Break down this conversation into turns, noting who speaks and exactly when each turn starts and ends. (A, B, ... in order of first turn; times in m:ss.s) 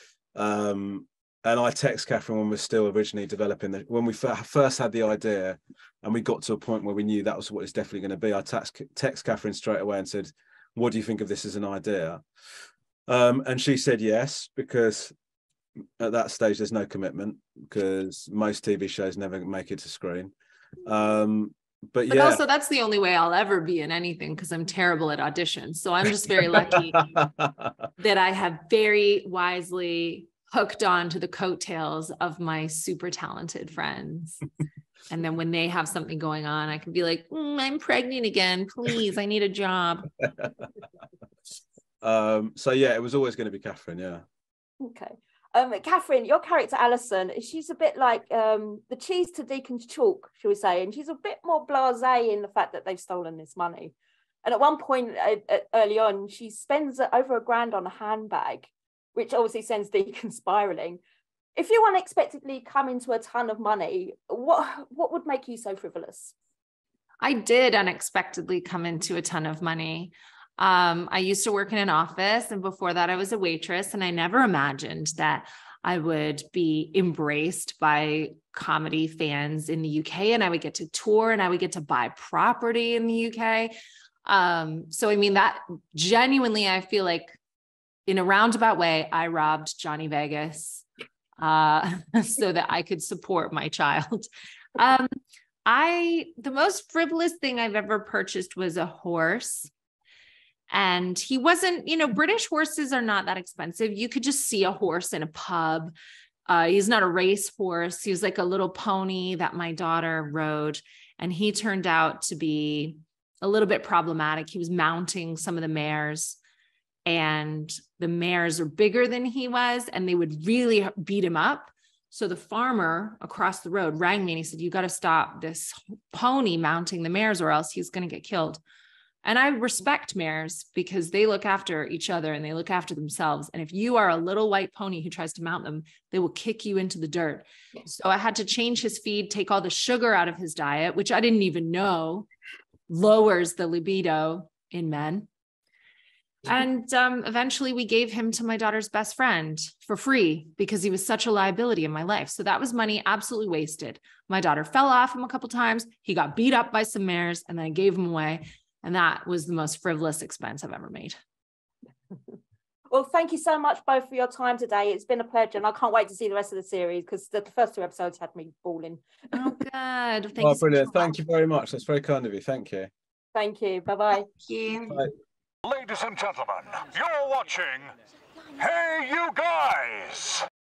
0:00.4-0:12.2 A
0:13.1-0:15.1 A
0:16.0-0:20.3 A
0:20.8-0:22.4 A
0:22.1-0:27.1 B
0:26.5-0:27.7 A
0:28.0-0:34.4 B
0:35.1-0:40.1 B
0:42.0-0:44.2 A
0:44.8-0:53.9 C
0:54.4-1:01.0 C
1:01.6-1:06.3 C
1:07.2-1:23.7 B
1:24.3-1:27.4 B
1:28.1-1:30.9 B
1:31.4-1:35.1 B
1:35.7-1:39.7 B
1:40.7-1:45.9 B
1:46.5-1:56.4 B
1:57.1-2:08.6 B
2:09.2-2:22.3 B
2:22.9-2:25.3 B
2:26.4-2:41.2 B
2:42.9-2:49.0 C
2:49.3-2:51.2 B
2:50.4-2:52.9 A
2:53.3-2:54.3 C
2:54.5-2:55.0 B
2:54.8-2:55.1 A
2:55.6-2:57.9 D
2:58.6-3:00.4 D